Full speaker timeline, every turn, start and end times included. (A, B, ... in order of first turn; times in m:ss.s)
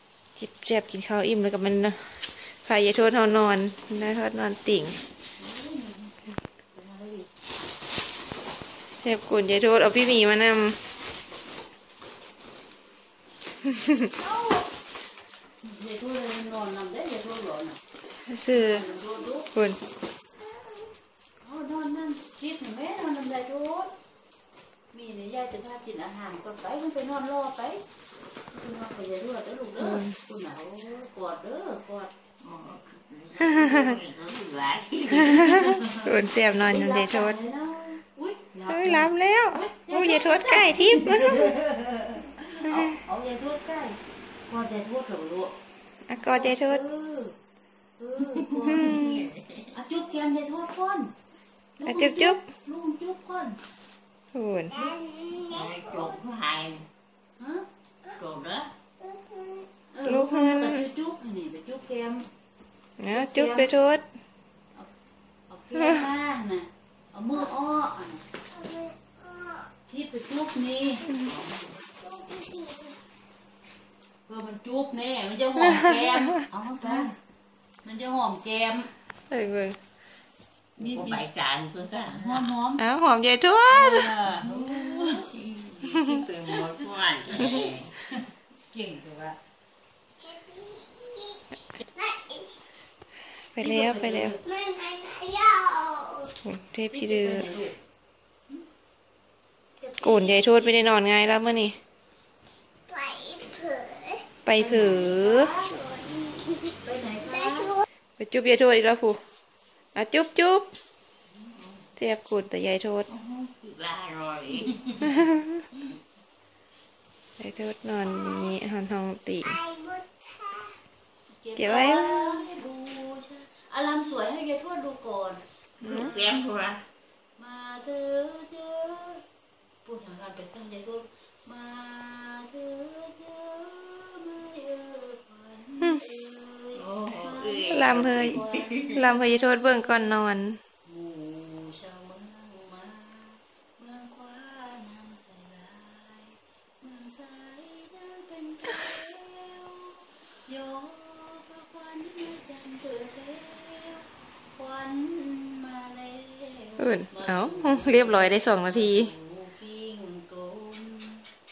0:00.4-0:05.0 A
0:05.4-0:06.2 B
0:06.7-0:07.3 B
0:08.9-0:10.8 A
0:13.6-0:14.1 A
0:15.6-0:17.8 B
0:18.2-0:18.8 A
0:18.5-0:19.5 B
0:21.4-0:23.9 B
0:24.9-0:27.8 B
0:28.5-0:32.1 B
0:29.8-0:30.2 A
0:32.4-0:35.8 C
0:33.6-0:33.9 A
0:35.3-0:37.4 A
0:35.3-0:45.5 B
0:38.6-0:41.6 A
0:42.7-0:43.0 A
0:46.1-0:46.8 A
0:46.3-0:47.4 B
0:48.0-0:49.0 B
0:48.3-0:49.7 C
0:48.8-0:49.2 A
0:49.7-0:51.1 B
0:51.8-0:53.6 B
0:51.8-0:52.4 A
0:54.3-0:55.0 A
0:55.1-0:55.4 D
0:55.3-0:56.8 C
0:57.4-0:57.6 B
0:58.2-0:58.7 C
0:59.9-1:02.3 B
1:00.0-1:00.8 A
1:03.0-1:04.0 A
1:03.1-1:03.7 B
1:05.5-1:08.2 B
1:09.9-1:11.2 B
1:12.1-1:12.9 D
1:14.3-1:17.1 B
1:17.8-1:18.9 B
1:19.3-1:19.8 A
1:20.8-1:22.5 C
1:20.8-1:21.2 B
1:22.0-1:22.8 B
1:22.8-1:24.1 A
1:23.7-1:25.3 B
1:24.3-1:27.9 C
1:28.7-1:29.4 B
1:30.4-1:31.4 D
1:32.0-1:32.4 D
1:33.5-1:34.3 A
1:33.6-1:34.6 B
1:34.7-1:36.2 D
1:36.4-1:37.5 A
1:36.9-1:37.8 B
1:39.8-1:41.0 B
1:40.0-1:41.8 A
1:43.0-1:44.2 D
1:44.4-1:45.5 A
1:44.5-1:45.8 B
1:46.8-1:47.8 B
1:48.2-1:49.2 A
1:49.9-1:50.7 A
1:52.0-1:53.1 A
1:53.1-1:55.2 C
1:55.2-1:55.6 A
1:57.4-1:59.6 A
2:01.3-2:06.2 B
2:01.6-2:02.5 A
2:05.8-2:06.8 C
2:07.4-2:09.2 B
2:09.8-2:20.1 B
2:16.7-2:18.9 C
2:17.7-2:20.6 A
2:20.8-2:41.2 B
2:36.8-2:39.1 A